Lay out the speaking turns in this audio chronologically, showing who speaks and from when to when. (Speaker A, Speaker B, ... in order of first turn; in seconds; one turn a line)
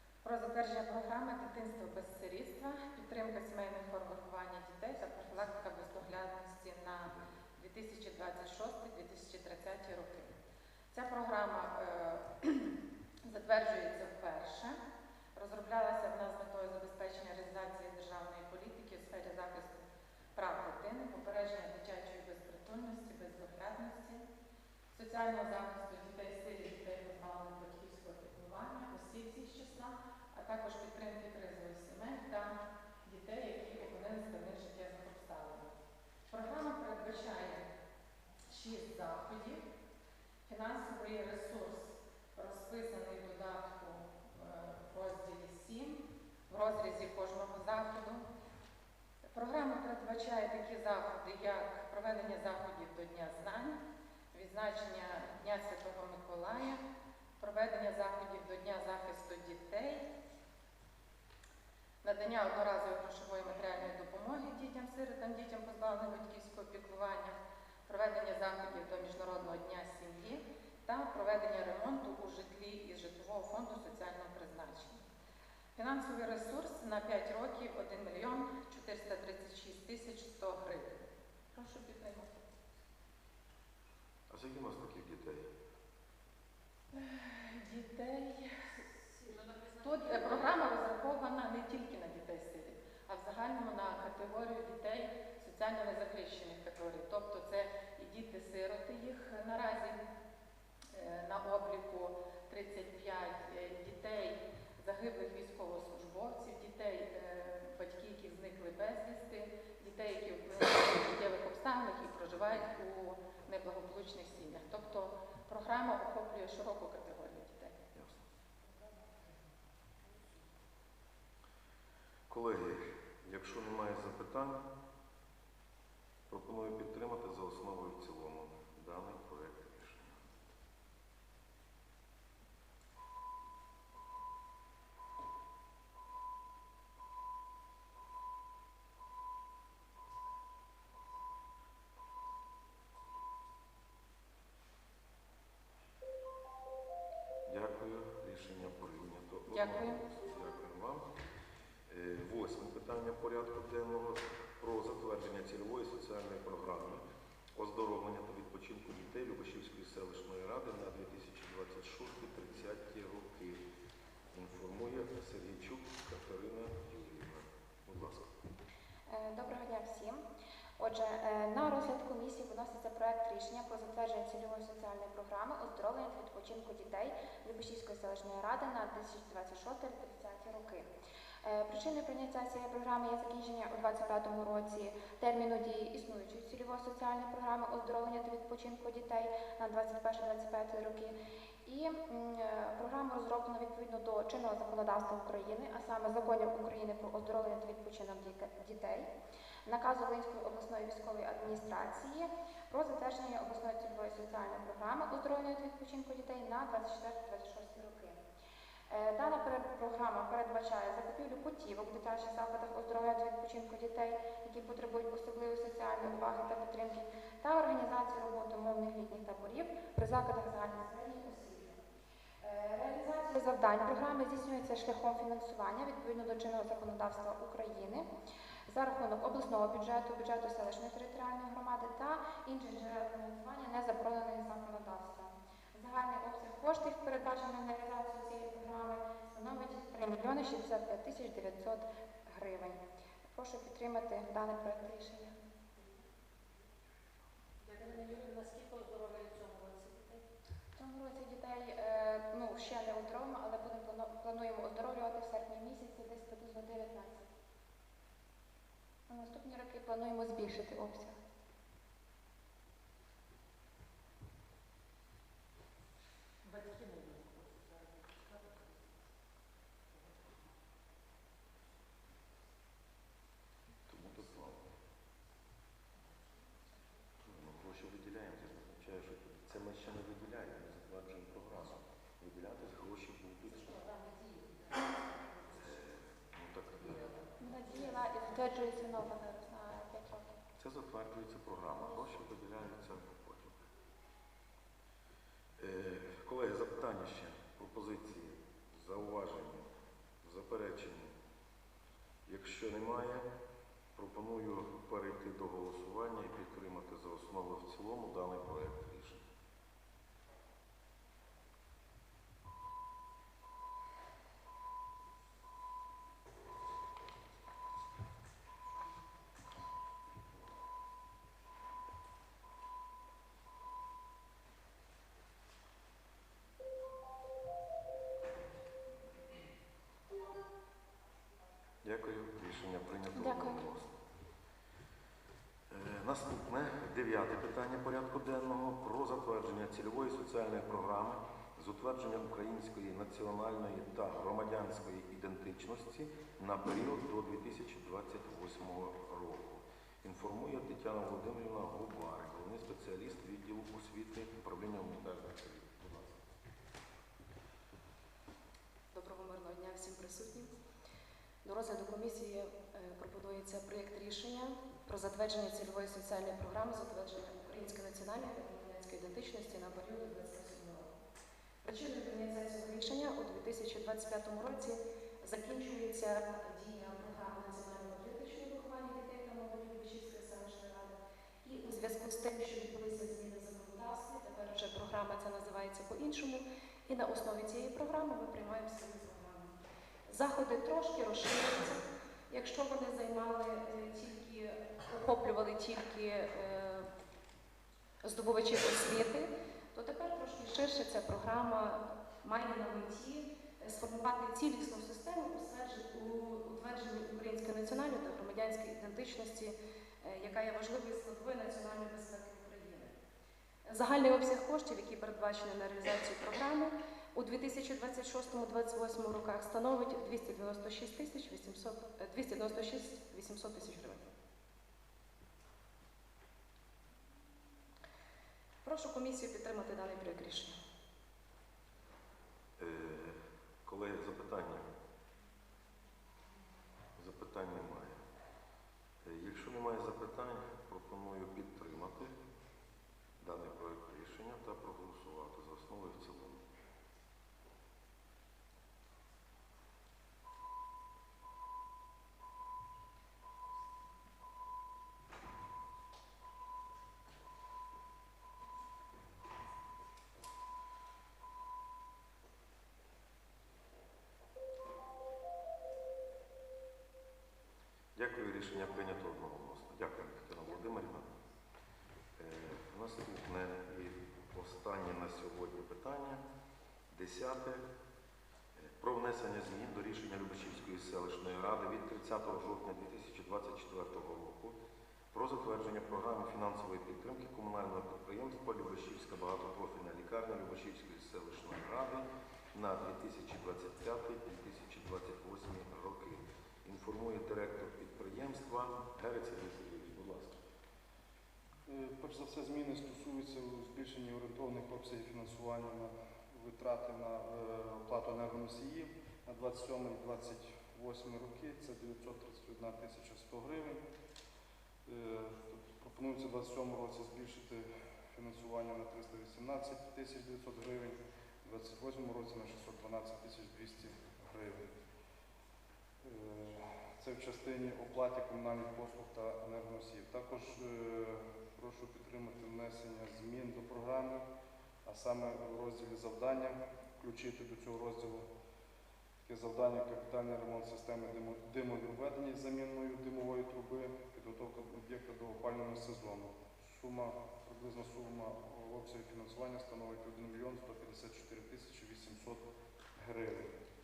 Speaker A: 0.2-10.3
Speaker A: 10.9-14.8
Speaker A: 15.3-19.8
Speaker A: 20.3-24.3
Speaker A: 24.9-35.7
Speaker A: 36.3-37.7
Speaker A: 38.5-39.6
Speaker A: 40.5-48.2
Speaker A: 49.3-53.8
Speaker A: 54.3-56.8
Speaker A: 57.4-60.1
Speaker A: 62.0-75.0
Speaker A: 75.8-82.4
Speaker B: 84.3-85.5
Speaker A: 86.9-88.6
Speaker C: 89.1-90.8
Speaker A: 89.8-100.0
Speaker A: 100.9-117.7
Speaker B: 117.9-118.2
Speaker C: 118.8-119.2
Speaker B: 122.3-124.7
Speaker B: 126.3-130.2
Speaker B: 147.5-151.1
Speaker A: 149.5-150.0
Speaker B: 151.9-157.0
Speaker B: 157.6-163.6
Speaker B: 164.3-168.3
Speaker D: 169.1-170.2
Speaker D: 170.8-180.9
Speaker D: 181.4-199.1
Speaker D: 199.6-208.2
Speaker D: 208.9-221.8
Speaker D: 222.4-228.1
Speaker D: 228.7-242.8
Speaker D: 243.3-245.3
Speaker C: 245.8-246.0
Speaker C: 247.6-250.2
Speaker D: 250.8-257.3
Speaker D: 259.1-261.1
Speaker C: 266.4-269.1
Speaker C: 269.9-270.6
Speaker B: 273.9-274.7
Speaker C: 276.0-276.8
Speaker B: 277.2-283.8
Speaker C: 283.5-285.9
Speaker B: 285.5-287.1
Speaker C: 286.7-288.7
Speaker D: 287.4-290.4
Speaker B: 290.6-293.6
Speaker B: 295.6-299.7
Speaker B: 300.2-301.1
Speaker B: 302.2-303.3
Speaker B: 303.9-309.2
Speaker B: 331.8-334.0
Speaker D: 333.1-333.6
Speaker B: 335.7-356.2
Speaker E: 358.9-360.5
Speaker E: 361.4-370.9
Speaker E: 371.6-389.5
Speaker E: 390.1-396.9
Speaker E: 398.0-412.9
Speaker E: 413.6-424.1
Speaker E: 428.6-430.6
Speaker B: 432.6-434.6
Speaker B: 437.0-438.0
Speaker B: 439.0-442.1
Speaker B: 443.2-446.4
Speaker B: 467.9-471.1
Speaker B: 472.2-476.2
Speaker B: 476.9-477.6
Speaker B: 478.6-484.5
Speaker B: 485.1-500.4
Speaker F: 501.6-513.8
Speaker F: 514.9-524.7
Speaker F: 526.0-534.2
Speaker F: 534.8-538.3
Speaker F: 539.2-552.4
Speaker F: 553.0-553.5